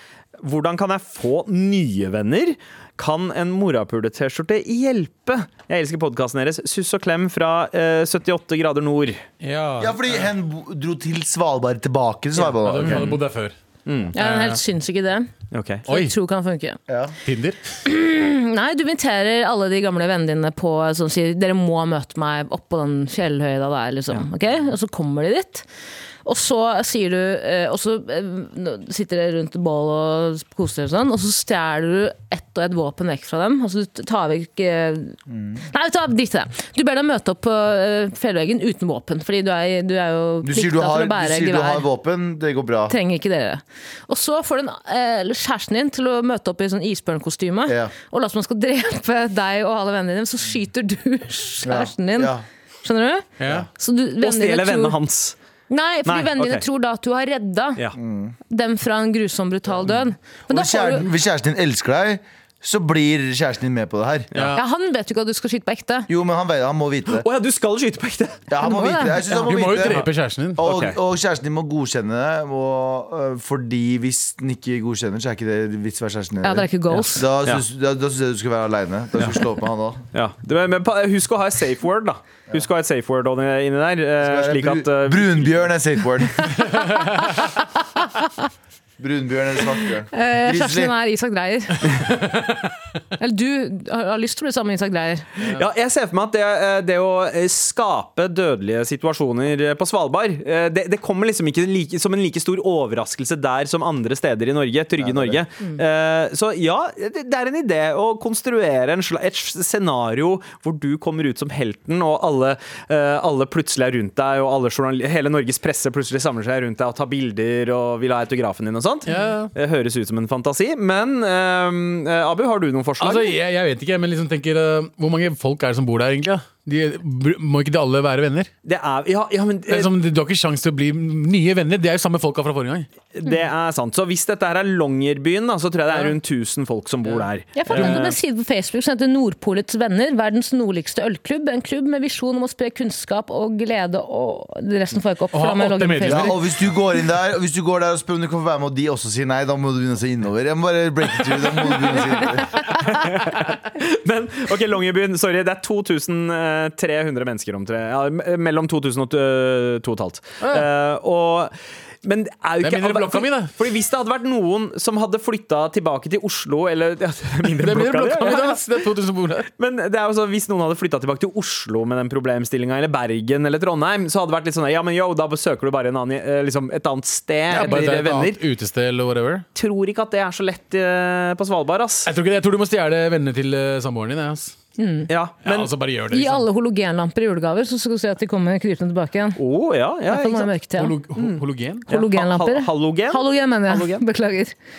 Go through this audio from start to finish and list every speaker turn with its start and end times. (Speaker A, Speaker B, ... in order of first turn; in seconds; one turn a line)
Speaker A: 0.4-9.2
Speaker B: 9.4-10.3
Speaker C: 9.8-13.2
Speaker B: 12.5-13.6
Speaker A: 12.8-13.2
Speaker A: 13.9-14.1
Speaker D: 14.1-15.3
Speaker B: 14.2-14.6
Speaker A: 15.5-15.9
Speaker B: 15.9-16.1
Speaker D: 15.9-16.8
Speaker C: 16.9-17.1
Speaker B: 17.3-17.6
Speaker D: 17.9-25.7
Speaker D: 26.2-35.2
Speaker C: 35.3-35.6
Speaker D: 35.7-41.9
Speaker C: 40.4-43.0
Speaker D: 42.9-53.3
Speaker C: 47.7-47.9
Speaker C: 51.6-52.4
Speaker B: 53.4-53.7
Speaker D: 53.8-55.0
Speaker A: 54.2-55.4
Speaker D: 55.7-57.8
Speaker A: 56.1-56.6
Speaker C: 58.0-58.4
Speaker D: 58.5-61.1
Speaker C: 60.5-64.3
Speaker B: 64.3-64.6
Speaker D: 64.5-66.1
Speaker C: 66.1-67.3
Speaker A: 67.1-68.4
Speaker C: 68.5-80.0
Speaker D: 68.6-69.3
Speaker B: 69.4-70.6
Speaker A: 69.8-70.1
Speaker A: 70.6-71.0
Speaker D: 76.4-77.3
Speaker A: 80.1-85.7
Speaker C: 84.2-86.6
Speaker C: 89.0-90.9
Speaker D: 90.1-92.0
Speaker D: 93.2-95.3
Speaker A: 95.5-123.4
Speaker C: 105.0-105.4
Speaker B: 119.1-119.5
Speaker B: 123.0-128.5
Speaker A: 128.7-129.9
Speaker B: 129.7-132.9
Speaker A: 133.2-138.1
Speaker D: 137.6-146.4
Speaker B: 137.7-138.2
Speaker B: 145.3-146.5
Speaker C: 146.1-152.6
Speaker A: 152.7-161.5
Speaker B: 160.4-160.7
Speaker A: 162.0-168.7
Speaker B: 162.6-163.5
Speaker B: 167.4-169.5
Speaker A: 169.6-178.4
Speaker B: 177.5-179.4
Speaker A: 179.6-182.1
Speaker B: 182.1-184.6
Speaker D: 184.8-185.1
Speaker A: 185.1-185.7
Speaker B: 185.4-186.4
Speaker D: 186.1-189.4
Speaker A: 189.4-190.5
Speaker D: 190.1-190.9
Speaker B: 190.7-191.9
Speaker A: 191.2-194.0
Speaker D: 191.9-194.6